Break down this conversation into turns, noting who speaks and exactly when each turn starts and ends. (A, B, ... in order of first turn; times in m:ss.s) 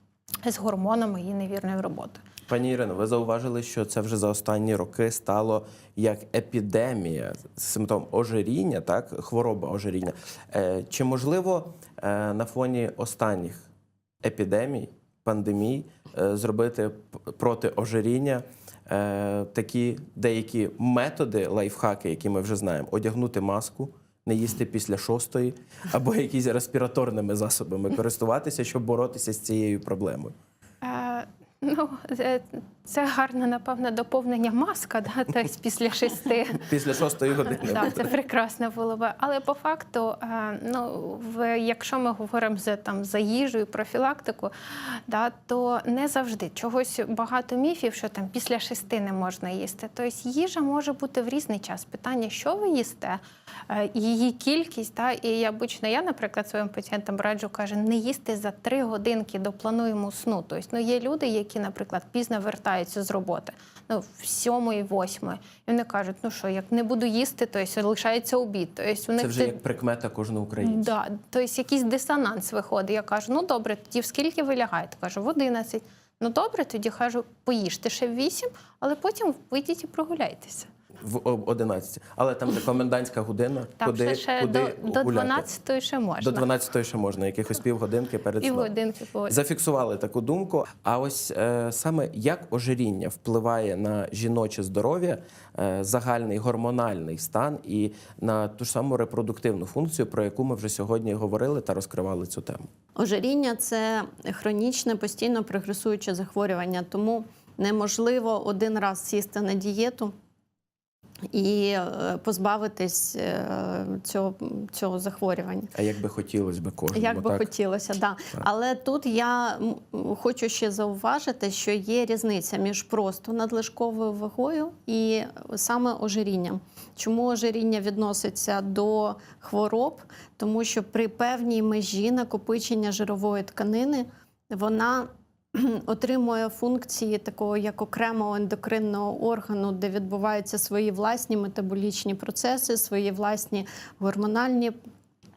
0:00.4-0:02.2 A
0:02.5-0:13.6 B
0:14.2-0:30.3 B
0:30.8-0:36.6 A
0:36.6-0:38.0 B
0:37.6-1:09.6 A
1:09.2-1:10.9 B
1:10.6-1:20.7 A
1:21.0-1:25.5 B
1:23.8-1:26.5 A
1:26.2-1:28.7 B
1:28.4-1:29.4 A
1:29.3-1:42.7 B
1:43.0-1:50.1 C
1:51.3-1:55.7 C
1:55.7-1:57.5 B
1:56.9-2:24.7 C